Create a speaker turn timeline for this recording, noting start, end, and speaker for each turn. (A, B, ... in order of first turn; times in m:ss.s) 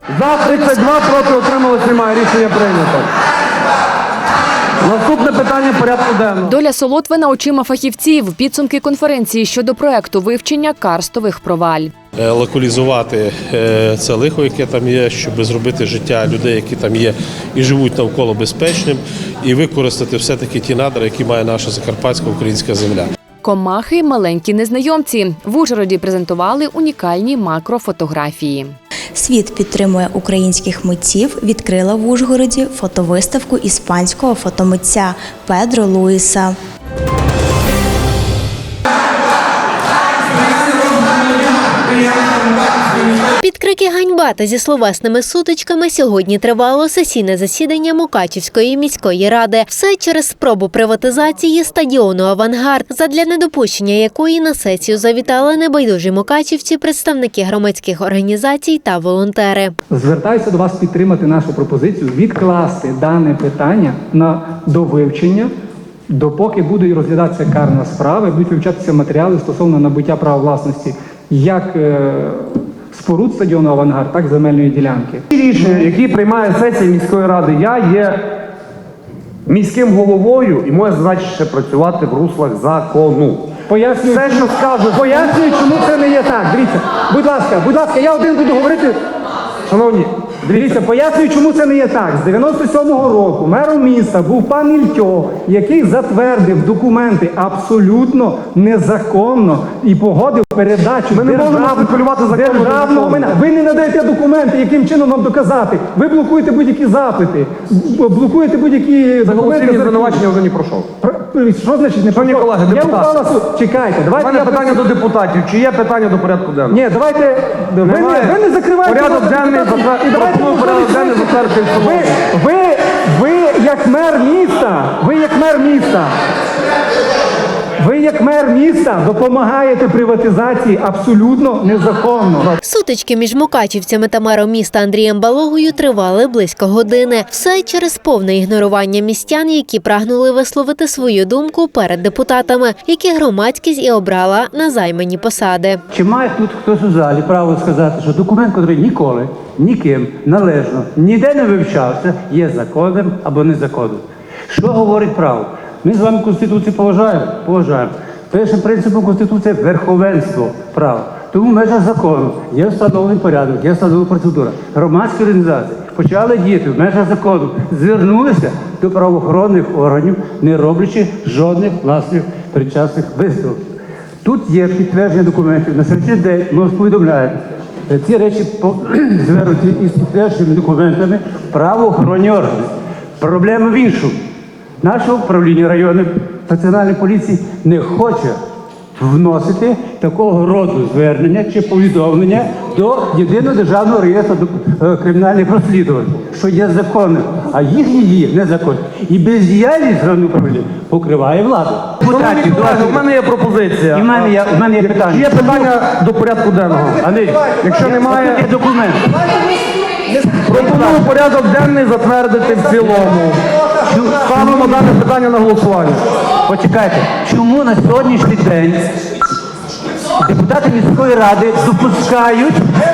0:00.1-0:03.1 A
0:04.8-0:06.5 A
0:06.4-0:11.9 B
0:12.2-0:23.1 C
0:23.4-0:28.8 B
0:29.2-0:36.6 D
0:43.4-0:59.7 E
0:59.9-1:05.5 F
1:06.2-1:11.8 F
1:12.9-1:15.9 F
1:15.3-1:18.3 A
1:19.5-1:23.5 A
1:23.7-1:29.0 F
1:24.0-1:25.4 A
1:29.7-1:30.8 A
1:30.5-1:50.2 F
1:41.1-1:43.4 A
1:49.2-1:50.9 A
1:51.0-1:54.8 F
1:52.1-1:53.3 A
1:54.1-1:56.8 A
1:56.7-2:06.1 F
1:57.8-2:02.2 A
2:07.8-2:12.5 F
2:12.6-2:25.8 E
2:25.9-2:53.6 G
2:54.2-3:04.2 G
3:04.8-3:08.4 G
3:09.0-3:23.0 G
3:22.0-3:27.0 A
3:23.9-3:25.7 G
3:27.0-3:29.0 G
3:27.6-3:28.4 A
3:30.5-3:33.4 A
3:30.5-3:31.0 G
3:33.9-3:34.8 G
3:34.2-3:36.0 A
3:36.5-3:38.9 G
3:40.2-3:42.7 G